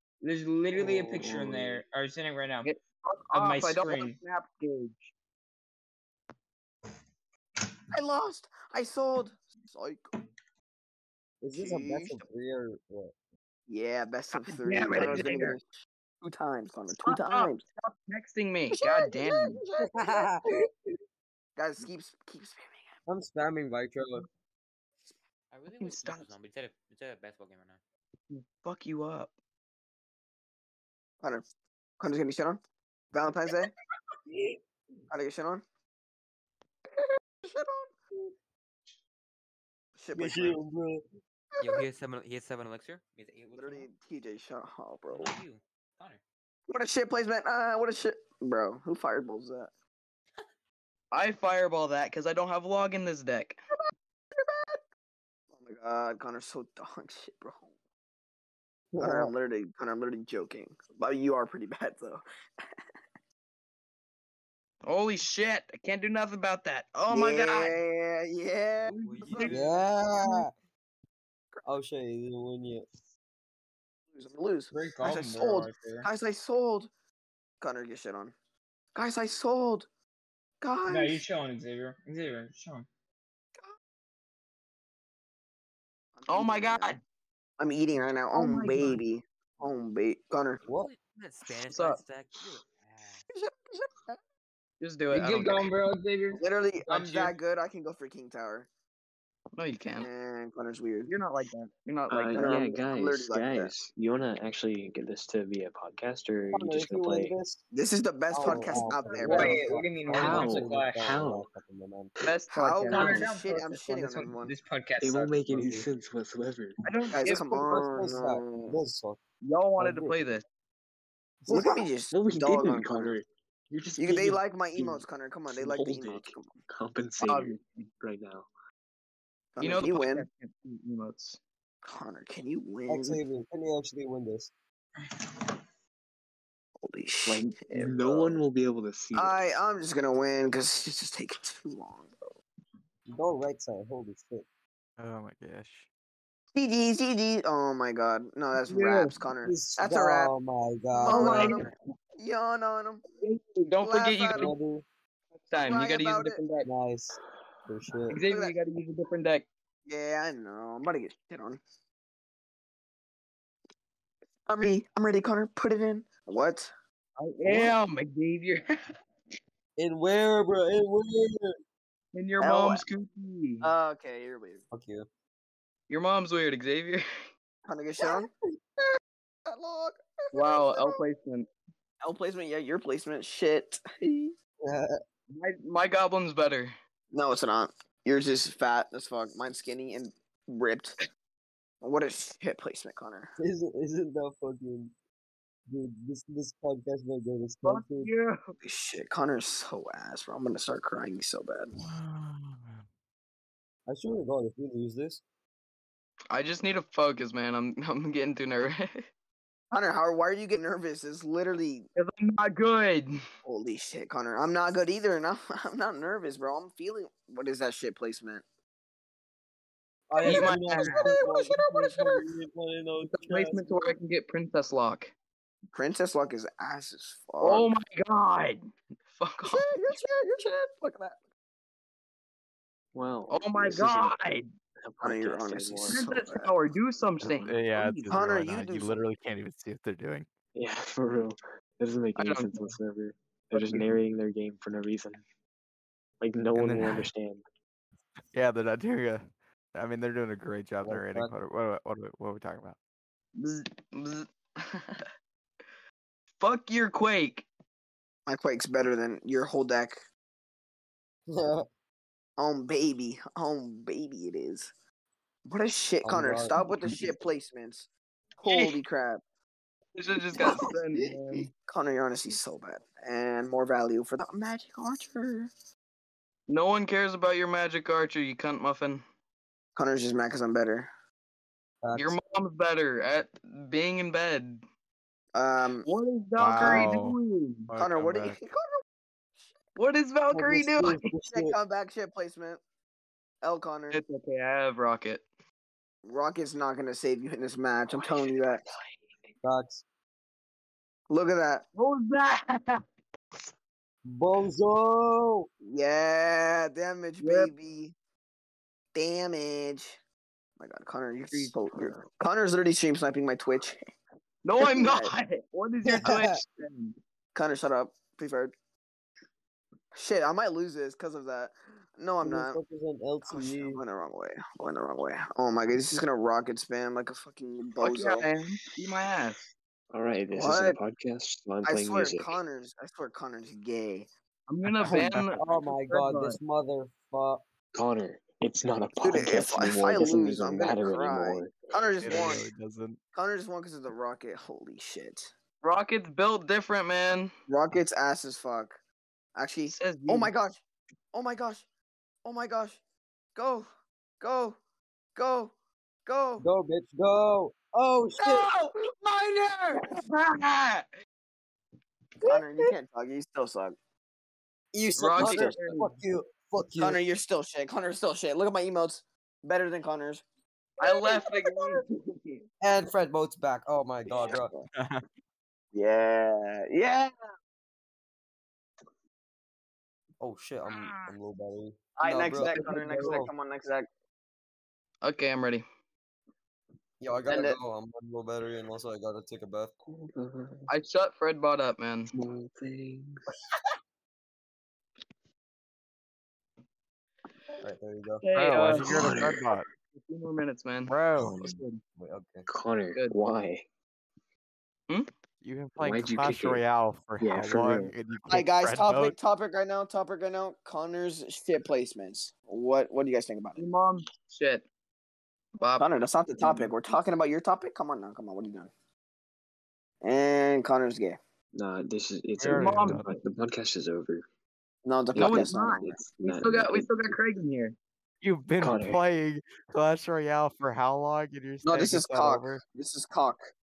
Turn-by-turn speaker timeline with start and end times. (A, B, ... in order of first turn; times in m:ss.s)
0:00.2-0:02.7 A
0:00.8-0:01.8 B
0:00.8-0:01.2 C
0:02.6-0:05.1 D
0:03.3-0:04.2 A
0:07.9-0:10.0 E
0:11.4-0:13.1 C
0:11.5-0:12.2 E
0:13.7-0:15.6 E
0:14.4-0:15.6 D
0:15.0-0:15.3 C
0:16.2-0:17.6 E
0:17.0-0:19.6 D
0:18.7-0:20.5 E
0:19.8-0:20.7 C
0:21.6-0:22.9 E
0:23.1-0:24.3 C
0:25.5-0:27.8 F
0:25.8-0:26.3 D
0:28.3-0:29.3 D
0:32.0-0:32.6 E
0:33.1-0:33.7 E
0:35.1-0:35.6 E
0:37.4-0:37.9 E
0:40.0-0:40.6 E
0:40.1-0:41.0 C
0:41.6-0:43.9 F
0:43.5-0:45.3 E
0:45.1-0:46.2 F
0:46.7-0:49.7 E
0:51.1-0:53.6 D
0:54.3-0:54.8 E
0:55.5-0:57.7 E
0:58.9-0:59.3 C
0:59.0-1:02.2 E
1:04.8-1:07.8 D
1:07.1-1:09.6 E
1:08.8-1:09.7 D
1:09.2-1:10.5 C
1:11.6-1:12.8 C
1:14.1-1:16.9 E
1:14.7-1:16.1 A
1:17.6-1:18.3 E
1:18.9-1:19.9 E
1:20.6-1:21.2 E
1:20.8-1:22.9 A
1:26.2-1:27.0 E
1:26.3-1:27.0 D
1:27.6-1:30.6 E
1:28.3-1:29.0 D
1:30.6-1:33.2 F
1:31.6-1:32.0 D
1:33.3-1:34.2 E
1:34.8-1:35.7 D
1:35.1-1:37.3 A
1:36.3-1:38.7 E
1:39.6-1:40.1 D
1:40.0-1:41.1 E
1:41.1-1:42.6 D
1:42.1-1:47.4 B
1:42.3-1:43.7 E
1:46.5-1:47.6 C
1:47.7-1:49.6 E
1:48.3-1:52.1 C
1:49.2-1:51.2 A
1:49.3-1:49.6 D
1:50.1-1:51.5 B
1:52.2-1:53.3 D
1:52.5-1:54.5 E
1:52.9-1:55.9 A
1:55.0-1:56.8 B
1:56.8-1:57.8 D
1:57.1-1:58.8 E
1:57.6-1:59.2 C
1:59.4-2:00.4 D
1:59.8-2:00.2 C
2:01.4-2:01.8 C
2:01.5-2:03.2 E
2:02.1-2:08.5 B
2:04.0-2:06.5 E
2:07.2-2:07.9 D
2:09.6-2:10.2 E
2:09.6-2:11.4 D
2:11.8-2:13.2 E
2:12.9-2:14.5 C
2:16.8-2:18.4 E
2:17.2-2:19.5 B
2:19.1-2:22.1 E
2:23.1-2:24.4 C
2:25.0-2:25.9 G
2:26.5-2:30.3 E
2:28.6-2:29.1 D
2:29.4-2:31.6 C
2:31.0-2:31.7 D
2:31.0-2:33.0 E
2:33.2-2:34.5 D
2:33.8-2:34.5 E
2:34.4-2:34.8 C
2:35.4-2:36.7 D
2:35.6-2:36.4 E
2:36.6-2:38.2 C
2:38.1-2:39.5 D
2:38.1-2:38.5 E
2:39.8-2:41.6 E
2:44.5-2:46.7 E
2:47.2-2:48.7 D
2:49.8-2:51.5 C
2:52.1-2:53.7 D
2:52.4-2:52.8 E
2:53.6-2:54.6 E
2:54.7-2:55.1 C
2:55.9-2:57.0 D
2:57.6-2:58.3 E
2:59.5-3:01.0 E
3:00.3-3:01.5 D
3:02.0-3:04.3 E
3:04.6-3:04.9 C
3:05.3-3:06.7 D
3:07.1-3:11.0 E
3:11.8-3:13.3 E
3:13.4-3:14.9 C
3:15.7-3:18.1 C
3:17.6-3:18.4 D
3:18.6-3:21.7 E
3:21.8-3:22.8 G
3:23.9-3:25.2 C
3:26.3-3:29.0 D
3:29.7-3:31.9 E
3:32.0-3:33.2 D
3:33.4-3:38.4 E
3:40.1-3:44.0 C
3:40.2-3:42.3 E
3:40.2-3:41.1 D
3:43.0-3:45.1 D
3:45.7-3:47.7 E
3:47.4-3:49.7 D
3:49.4-3:51.2 E
3:52.9-3:56.0 B
3:53.3-3:54.5 D
3:55.0-3:56.5 E
3:55.9-3:58.1 D
3:57.2-3:57.6 B
3:57.4-4:00.3 G
3:58.0-3:59.0 E
4:00.5-4:05.2 B
4:02.2-4:02.8 D
4:03.6-4:03.8 D
4:06.2-4:07.4 B
4:06.6-4:07.1 G
4:08.3-4:12.8 G
4:10.8-4:11.3 C
4:13.4-4:15.0 D
4:16.4-4:17.5 D
4:18.2-4:20.0 E
4:21.3-4:21.7 C
4:22.4-4:24.7 E
4:25.4-4:27.9 E
4:26.0-4:27.1 C
4:28.4-4:29.2 E
4:28.4-4:28.8 D
4:30.0-4:31.5 D
4:30.2-4:35.5 E
4:36.5-4:39.0 D
4:39.8-4:40.9 E
4:41.8-4:42.2 C
4:42.0-4:44.6 D
4:45.3-4:45.9 E
4:45.8-4:47.7 D
4:46.4-4:47.2 G
4:46.6-4:46.9 E
4:47.7-4:48.4 G
4:47.8-4:48.8 E
4:49.8-4:51.1 D
4:50.3-4:51.6 C
4:51.2-4:52.6 E
4:53.4-4:54.0 E
4:53.9-4:55.2 D
4:56.0-4:58.6 E
4:57.9-4:59.3 B
4:59.4-4:59.8 C
5:01.1-5:01.6 E
5:01.7-5:02.8 D
5:04.0-5:05.5 C
5:05.6-5:07.9 E
5:07.2-5:07.5 D
5:08.9-5:10.0 E
5:10.6-5:13.8 E
5:14.4-5:16.9 D
5:14.6-5:15.1 E
5:15.8-5:16.3 C
5:17.3-5:18.5 E
5:19.9-5:22.6 E
5:22.2-5:23.8 C
5:23.3-5:28.3 E
5:27.8-5:29.4 D
5:29.9-5:32.3 B
5:30.3-5:30.8 E
5:31.6-5:34.1 E
5:34.5-5:36.4 D
5:34.7-5:35.3 G
5:35.4-5:37.4 C
5:37.7-5:42.4 B
5:39.0-5:42.5 E
5:42.0-5:43.0 G
5:43.1-5:45.3 E
5:45.6-5:47.3 D
5:47.5-5:48.8 E
5:49.4-5:50.6 E
5:49.7-5:50.3 D
5:51.1-5:51.6 E
5:52.2-5:52.8 E
5:53.3-5:53.6 E
5:54.2-5:54.6 E
5:55.2-5:55.5 E
5:56.0-5:56.4 E
5:56.4-5:58.5 C
5:58.2-6:00.9 D
6:02.2-6:02.7 C
6:02.2-6:03.7 E
6:04.7-6:07.0 C
6:05.0-6:05.9 D
6:05.2-6:05.5 E
6:06.8-6:10.2 E
6:10.8-6:12.4 D
6:10.8-6:11.8 E
6:12.6-6:14.5 C
6:14.1-6:14.7 E
6:14.7-6:15.0 G
6:15.7-6:17.1 E
6:20.2-6:23.3 C
6:22.0-6:23.9 E
6:22.2-6:23.3 D
6:25.0-6:25.6 D
6:27.0-6:29.7 C
6:27.3-6:27.6 E
6:29.8-6:30.7 B
6:30.7-6:32.1 D
6:32.1-6:33.2 B
6:37.6-6:38.3 C
6:38.2-6:39.2 D
6:38.4-6:39.7 G
6:38.8-6:39.6 B
6:40.0-6:41.8 D
6:40.9-6:41.6 G
6:42.0-6:42.4 C
6:42.5-6:43.6 B
6:45.4-6:49.2 G
6:45.8-6:46.6 B
6:47.2-6:47.9 B
6:48.3-6:53.6 E
6:53.6-6:54.6 D
6:55.6-6:55.8 D
6:55.8-6:58.7 E
7:00.0-7:01.2 E
7:01.5-7:04.2 B
7:02.4-7:03.1 G
7:02.5-7:03.0 D
7:04.8-7:06.0 E
7:05.1-7:07.1 B
7:05.1-7:07.8 D
7:08.2-7:12.6 G
7:08.6-7:09.0 B
7:11.6-7:13.4 E